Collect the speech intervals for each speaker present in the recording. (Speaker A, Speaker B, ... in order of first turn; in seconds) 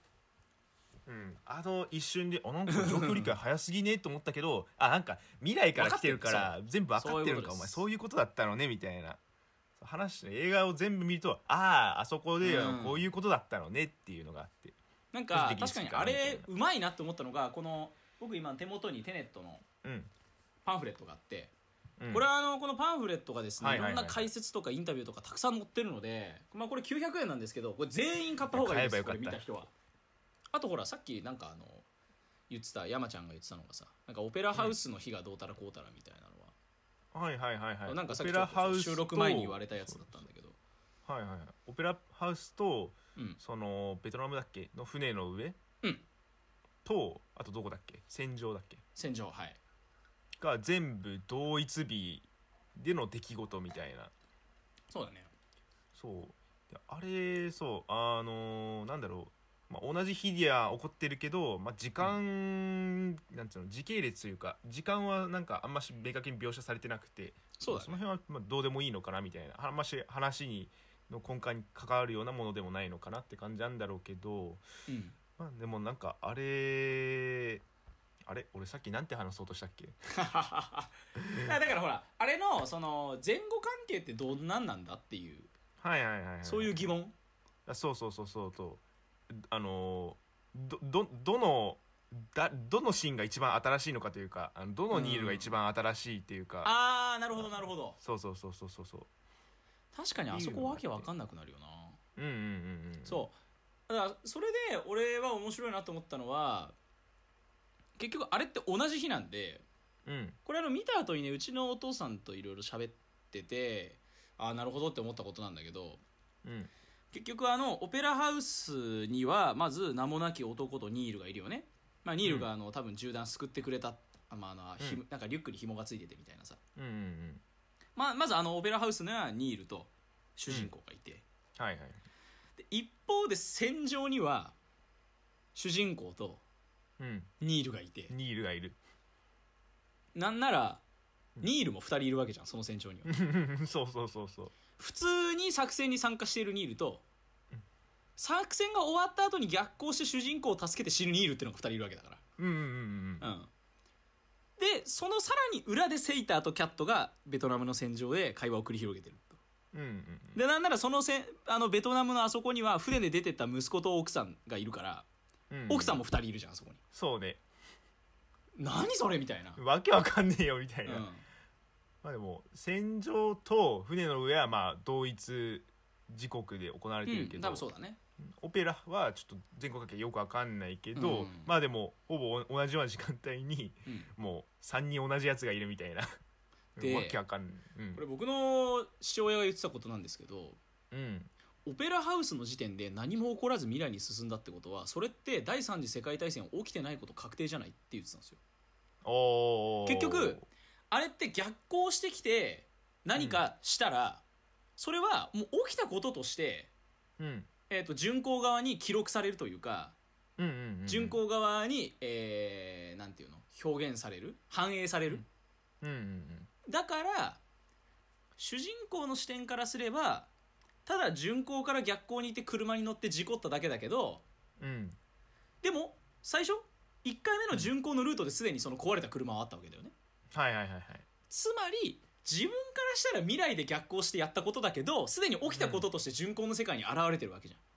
Speaker A: 1.1-9.2, 9.8-14.8, 15.3-16.5, 19.8-20.1, 22.0-22.3, 23.6-24.3, 28.5-29.4, 37.1-40.2, 41.1-45.6, 46.9-48.8, 50.4-54.1, 56.0-74.6, 75.4-77.6, 78.3-80.0, 81.2-81.5, 85.8-86.9, 87.7-96.7, 97.4-99.1, 100.3-101.1, 102.2-103.3, 110.1-110.4, 116.4-116.7, 126.8-127.4, 131.6-132.0, 137.0-137.3, 138.1-138.8, 143.1-144.6, 152.4-153.3, 159.7-160.4, 165.5-166.0, 166.9-167.4, 169.6-171.1, 172.0-177.7, 178.2-186.1, 186.8-188.0, 190.9-191.3, 199.0-200.4, 203.2-203.4, 207.2-207.5, 210.4-211.2, 215.8-216.5, 224.6-225.0, 230.3-231.1, 235.5-235.9
Speaker B: 2.7-3.3, 5.8-7.8, 12.4-13.1, 15.1-19.6, 20.6-21.5, 22.1-29.7, 30.5-31.9, 32.5-36.5, 37.9-40.6, 49.0-49.6, 54.9-55.3, 67.6-68.0, 74.9-75.2, 80.1-85.5, 86.4-87.1, 94.9-95.5, 96.6-98.0, 99.9-102.0, 103.0-103.3, 103.9-106.8, 108.0-109.6, 110.5-116.0, 117.1-126.6, 128.0-131.2, 132.6-134.6, 135.6-136.4, 137.4-138.1, 140.1-140.8, 141.4-143.1, 144.8-147.0, 148.2-152.2, 153.2-153.5, 154.6-159.4, 160.3-165.1, 165.7-166.8, 168.6-169.6, 170.9-171.2, 177.1-178.0, 181.0-181.5, 186.8-187.2, 187.9-190.6, 191.7-198.4, 199.9-204.2, 204.8-206.7, 207.7-210.0, 210.9-215.2, 216.7-217.4, 218.4-220.3, 220.9-224.2, 225.6-229.9, 231.3-237.6